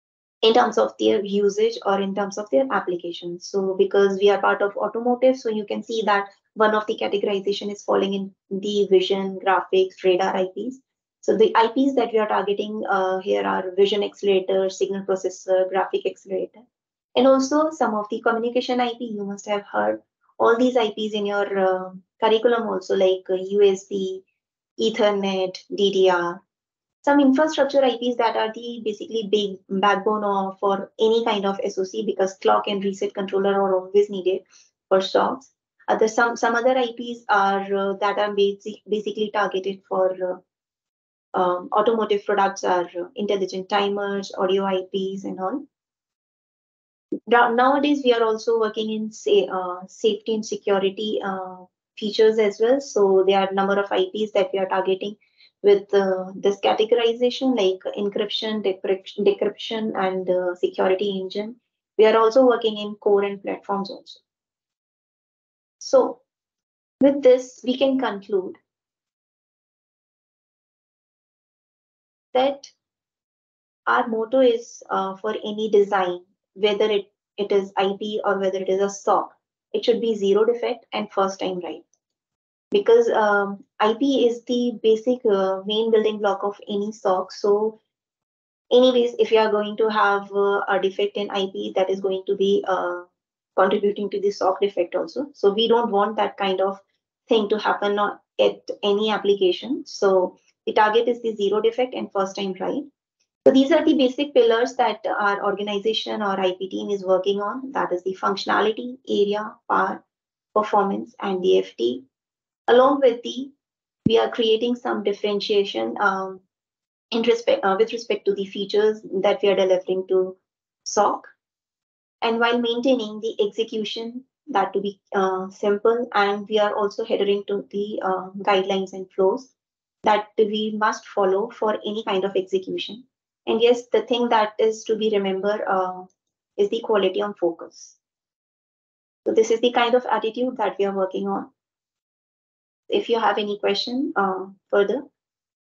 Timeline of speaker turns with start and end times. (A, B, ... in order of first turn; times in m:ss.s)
0:00.4-0:16.6 A
0:17.2-0:24.2 A
0:24.8-0:26.4 A
0:27.0-0:40.4 A
0:41.3-0:45.7 A
0:47.3-1:04.2 A
1:05.8-1:06.2 A
1:07.0-1:08.6 A
1:12.3-1:12.7 A
1:13.9-1:21.8 A
1:22.7-1:27.8 A
1:28.7-1:42.9 A
1:43.4-1:50.0 A
1:50.6-1:52.1 A
1:52.7-1:53.5 A
1:54.1-1:56.4 A
1:57.1-2:01.3 A
2:02.2-2:09.5 A
2:10.0-2:18.0 A
2:19.2-2:21.5 A
2:22.9-2:25.1 A